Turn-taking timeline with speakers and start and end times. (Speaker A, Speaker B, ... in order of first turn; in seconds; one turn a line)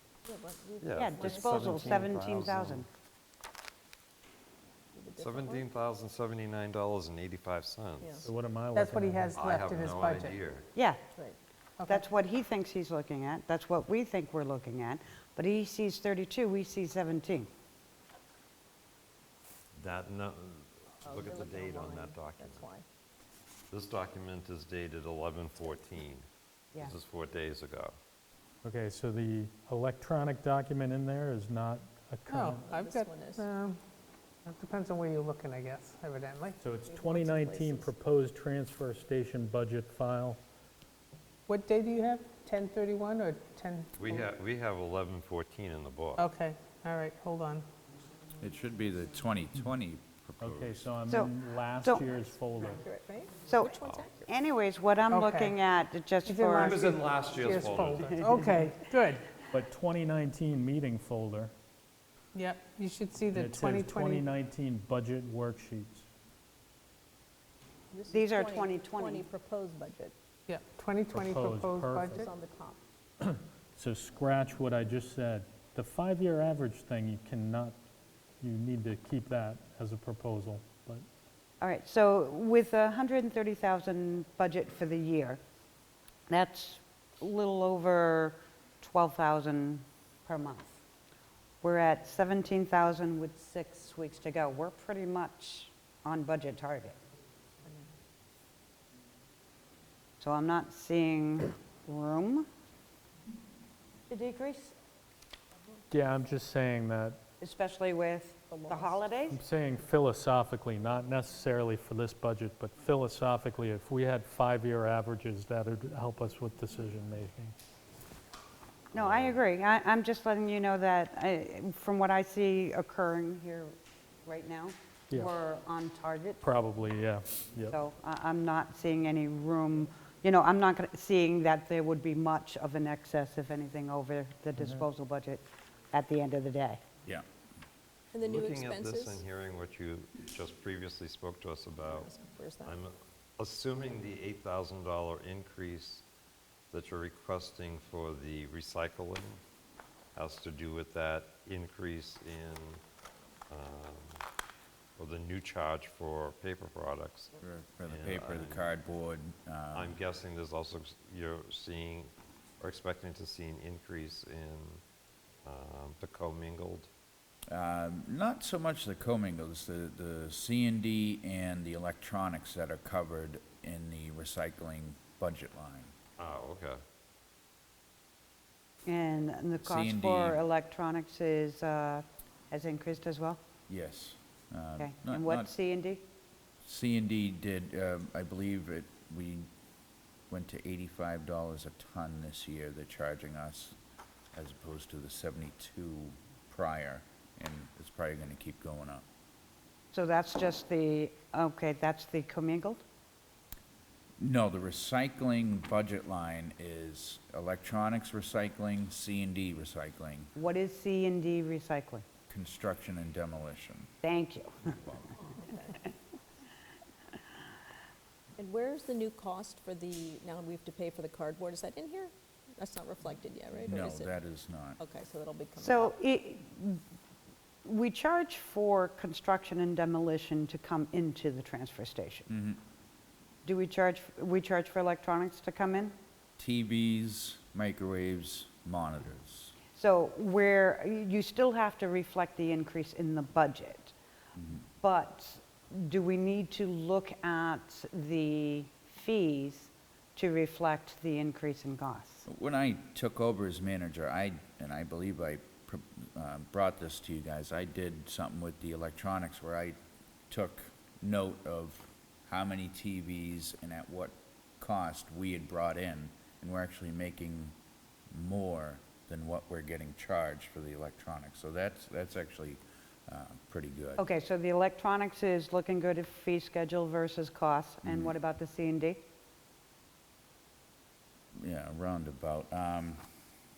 Speaker A: 0.2-2.1
Speaker B: 0.8-2.9
Speaker C: 0.9-2.9
Speaker A: 4.9-5.7
Speaker B: 5.2-8.3
Speaker A: 8.0-8.3
Speaker D: 8.2-9.4
Speaker E: 8.7-10.4
Speaker B: 9.3-10.7
Speaker C: 10.7-11.0
Speaker E: 11.8-12.1
Speaker C: 11.8-17.5
Speaker B: 19.8-22.7
Speaker A: 21.0-22.8
Speaker B: 23.7-26.2
Speaker B: 26.8-27.9
Speaker D: 28.6-32.7
Speaker E: 32.3-33.8
Speaker A: 32.6-33.5
Speaker E: 34.4-36.6
Speaker D: 36.6-40.4
Speaker A: 36.9-37.9
Speaker E: 41.5-44.3
Speaker B: 44.0-46.3
Speaker E: 46.2-47.6
Speaker F: 48.4-50.9
Speaker D: 50.4-52.8
Speaker C: 51.1-52.2
Speaker A: 52.6-54.3
Speaker C: 53.5-57.0
Speaker E: 55.1-55.6
Speaker E: 56.2-59.2
Speaker B: 56.6-58.1
Speaker C: 58.0-58.6
Speaker D: 59.5-61.5
Speaker E: 62.3-64.3
Speaker D: 63.3-66.1
Speaker A: 67.9-70.1
Speaker C: 68.1-69.2
Speaker E: 70.5-72.3
Speaker D: 71.1-72.2
Speaker A: 72.1-72.8
Speaker D: 73.2-77.8
Speaker D: 78.4-81.0
Speaker C: 81.6-85.4
Speaker C: 86.3-90.7
Speaker C: 91.6-97.0
Speaker C: 100.2-102.5
Speaker C: 104.1-104.7
Speaker D: 105.9-107.2
Speaker C: 107.4-109.4
Speaker A: 108.5-109.0
Speaker D: 109.3-117.5
Speaker C: 118.9-123.7
Speaker B: 119.0-119.3
Speaker C: 124.2-126.4
Speaker D: 126.4-127.8
Speaker C: 127.7-136.8
Speaker D: 134.6-134.8
Speaker A: 138.1-139.2
Speaker B: 138.2-142.1
Speaker A: 141.8-142.8
Speaker B: 142.6-146.0
Speaker B: 146.7-149.4
Speaker B: 150.1-152.8
Speaker B: 153.5-154.2
Speaker B: 155.0-158.8
Speaker F: 157.4-159.9
Speaker B: 159.7-164.8
Speaker B: 165.4-166.9
Speaker F: 167.5-175.9
Speaker B: 176.2-176.8
Speaker C: 178.8-183.4
Speaker F: 179.6-180.4
Speaker F: 183.7-185.5
Speaker C: 184.8-186.0
Speaker F: 186.6-189.5
Speaker F: 190.3-193.8
Speaker F: 194.3-199.0
Speaker C: 199.9-202.8
Speaker F: 204.2-210.3
Speaker C: 210.3-212.0
Speaker F: 212.3-213.9
Speaker C: 214.0-214.8
Speaker F: 214.8-215.2
Speaker A: 218.4-224.2
Speaker F: 223.7-224.8
Speaker A: 224.8-225.9
Speaker C: 225.6-226.8
Speaker C: 227.6-232.3
Speaker F: 232.3-232.6
Speaker C: 233.4-235.9
Speaker F: 236.4-239.5
Speaker C: 239.7-243.9
Speaker F: 244.3-244.6
Speaker C: 244.8-252.2
Speaker F: 252.2-259.8
Speaker F: 260.3-267.5
Speaker F: 268.1-274.0
Speaker C: 274.0-279.0
Speaker F: 277.8-278.1
Speaker F: 281.3-283.0